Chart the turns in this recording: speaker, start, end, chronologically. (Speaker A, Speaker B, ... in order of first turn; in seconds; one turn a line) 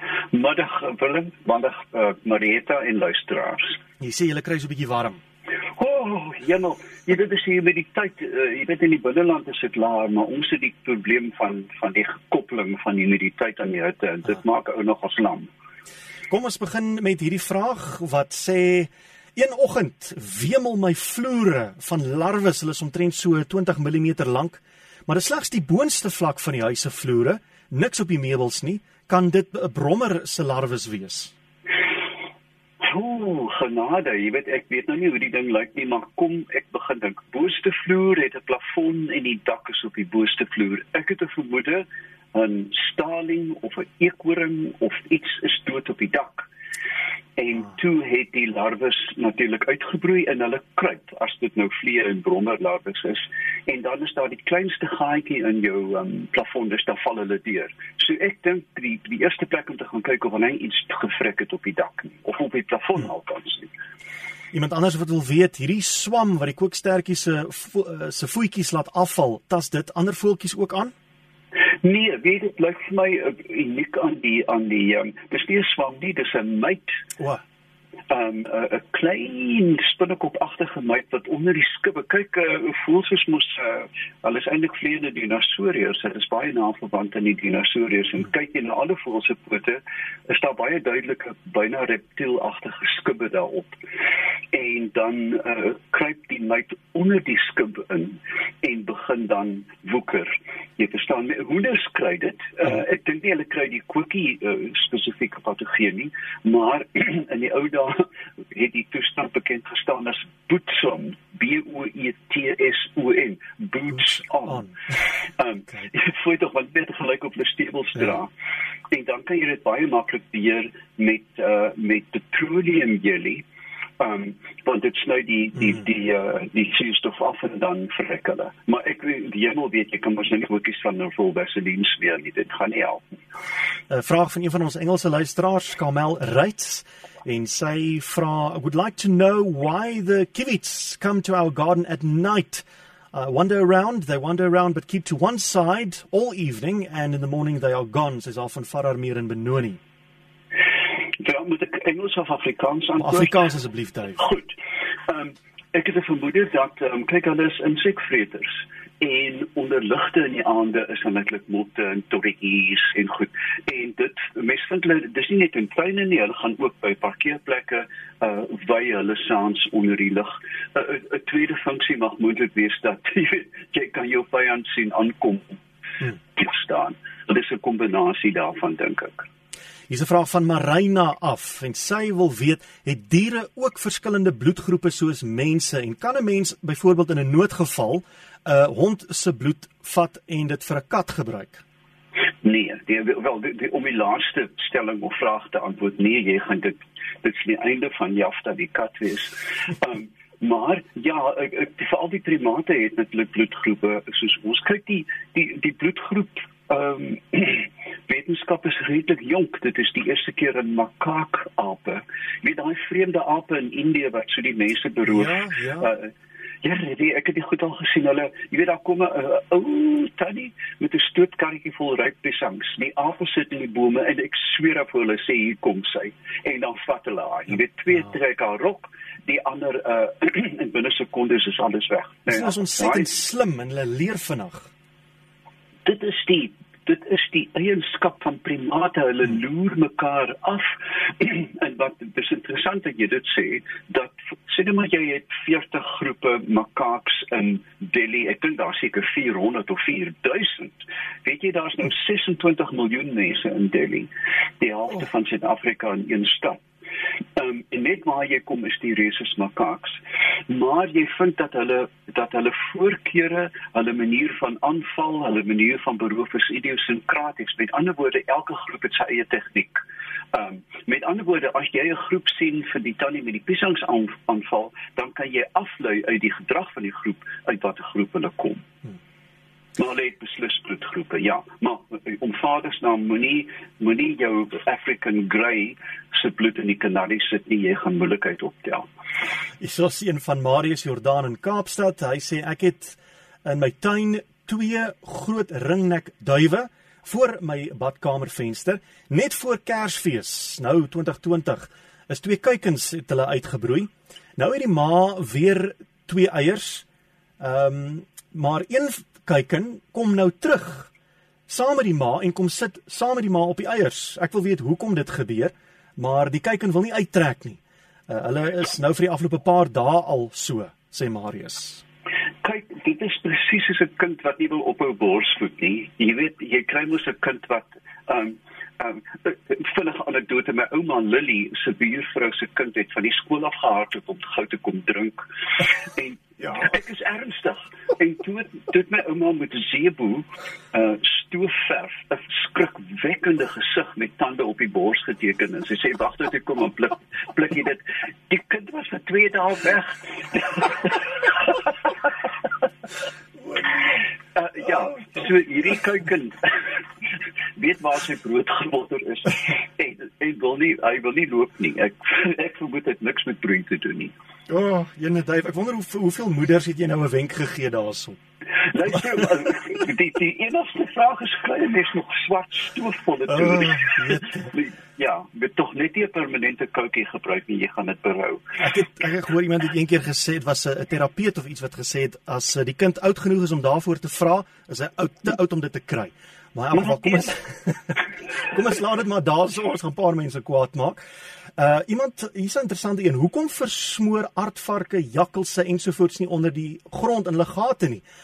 Speaker A: 0.3-3.8
Speaker B: 4.0-5.2
Speaker A: 5.8-15.5
Speaker B: 16.3-31.3
Speaker A: 32.9-46.5
Speaker A: 47.4-63.7
Speaker B: 64.5-70.9
Speaker A: 71.8-77.0
Speaker A: 78.1-93.8
Speaker A: 94.5-114.7
Speaker A: 115.3-118.3
Speaker A: 118.9-123.4
Speaker A: 124.0-133.0
Speaker B: 133.9-149.8
Speaker A: 151.2-153.4
Speaker B: 153.0-154.2
Speaker A: 154.2-154.6
Speaker A: 155.1-179.3
Speaker B: 179.9-191.6
Speaker A: 192.4-216.1
Speaker B: 215.1-215.9
Speaker A: 216.6-233.1
Speaker B: 232.3-234.7
Speaker A: 235.8-254.1
Speaker A: 254.6-256.6
Speaker A: 257.4-278.6
Speaker A: 279.8-288.8
Speaker B: 289.6-306.9
Speaker B: 307.4-310.9
Speaker B: 311.5-321.8
Speaker A: 322.4-351.9
Speaker A: 353.9-356.8
Speaker A: 357.6-364.1
Speaker B: 364.5-368.2
Speaker A: 368.6-378.5
Speaker B: 373.3-374.5
Speaker B: 378.6-391.0
Speaker A: 386.7-387.3
Speaker B: 391.6-398.0